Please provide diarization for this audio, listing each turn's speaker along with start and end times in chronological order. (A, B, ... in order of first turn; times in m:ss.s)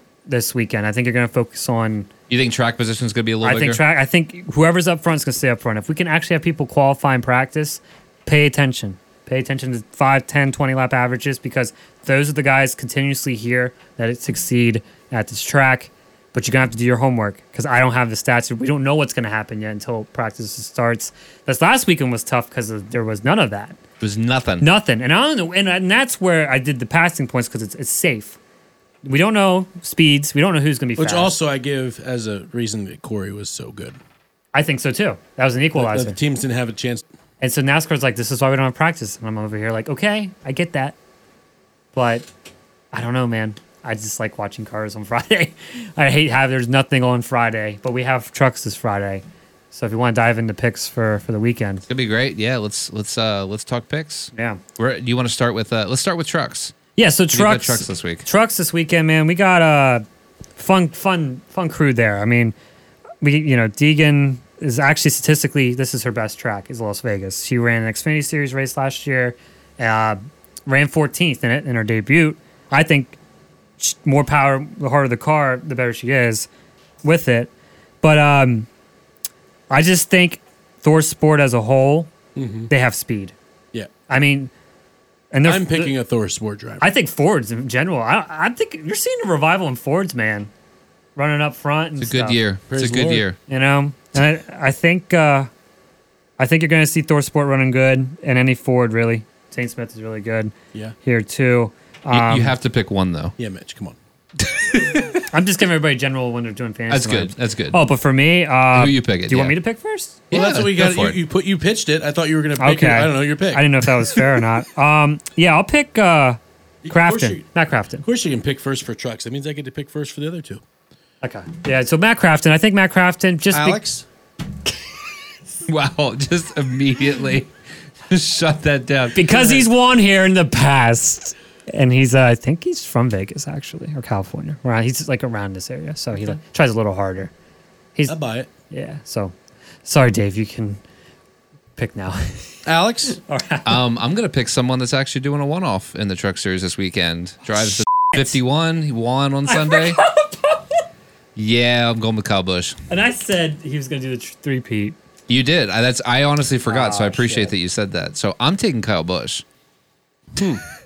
0:00.3-0:02.1 A
0:02.3-0:03.8 B
0:03.4-0:23.8 A
0:24.0-0:24.7 B
0:24.6-0:28.4 A
0:29.0-0:31.3 A
0:31.0-0:34.0 C
0:34.5-0:36.2 A
0:35.8-0:37.0 C
0:37.4-0:41.0 A
0:41.9-0:42.3 A
0:42.9-0:51.8 A
0:51.9-0:56.8 B
0:54.3-0:54.6 A
0:57.0-1:00.0 A
0:57.3-0:58.2 B
1:00.6-1:02.6 A
1:03.2-1:13.2 A
1:13.8-1:16.5 A
1:17.0-1:17.5 A
1:18.0-1:18.7 A
1:19.7-1:22.1 A
1:22.4-1:22.7 C
1:22.7-1:23.4 A
1:24.1-1:24.5 A
1:25.3-1:26.0 A
1:25.4-1:26.8 C
1:26.8-1:30.5 A
1:31.2-1:32.4 A
1:32.0-1:33.4 B
1:32.7-1:33.3 C
1:33.5-1:35.5 A
1:36.4-1:42.6 A
1:42.1-1:43.4 B
1:43.4-1:44.0 C
1:44.5-1:45.2 B
1:45.3-1:50.2 A
1:46.9-1:47.8 B
1:48.7-1:49.6 B
1:50.3-1:51.2 B
1:50.3-1:54.3 C
1:52.6-1:58.0 A
1:56.8-1:57.5 C
1:58.0-2:00.6 C
2:01.2-2:03.8 A
2:03.5-2:04.0 C
2:05.6-2:07.5 B
2:08.1-2:09.3 B
2:09.2-2:17.3 A
2:09.3-2:09.6 C
2:18.1-2:18.5 C
2:18.7-2:20.8 A
2:21.8-2:23.8 A
2:22.7-2:23.2 C
2:23.6-2:30.0 B
2:29.5-2:30.6 A
2:31.4-2:32.8 B
2:32.9-2:35.0 A
2:35.3-2:39.4 B
2:36.7-2:37.5 A
2:40.4-2:40.6 C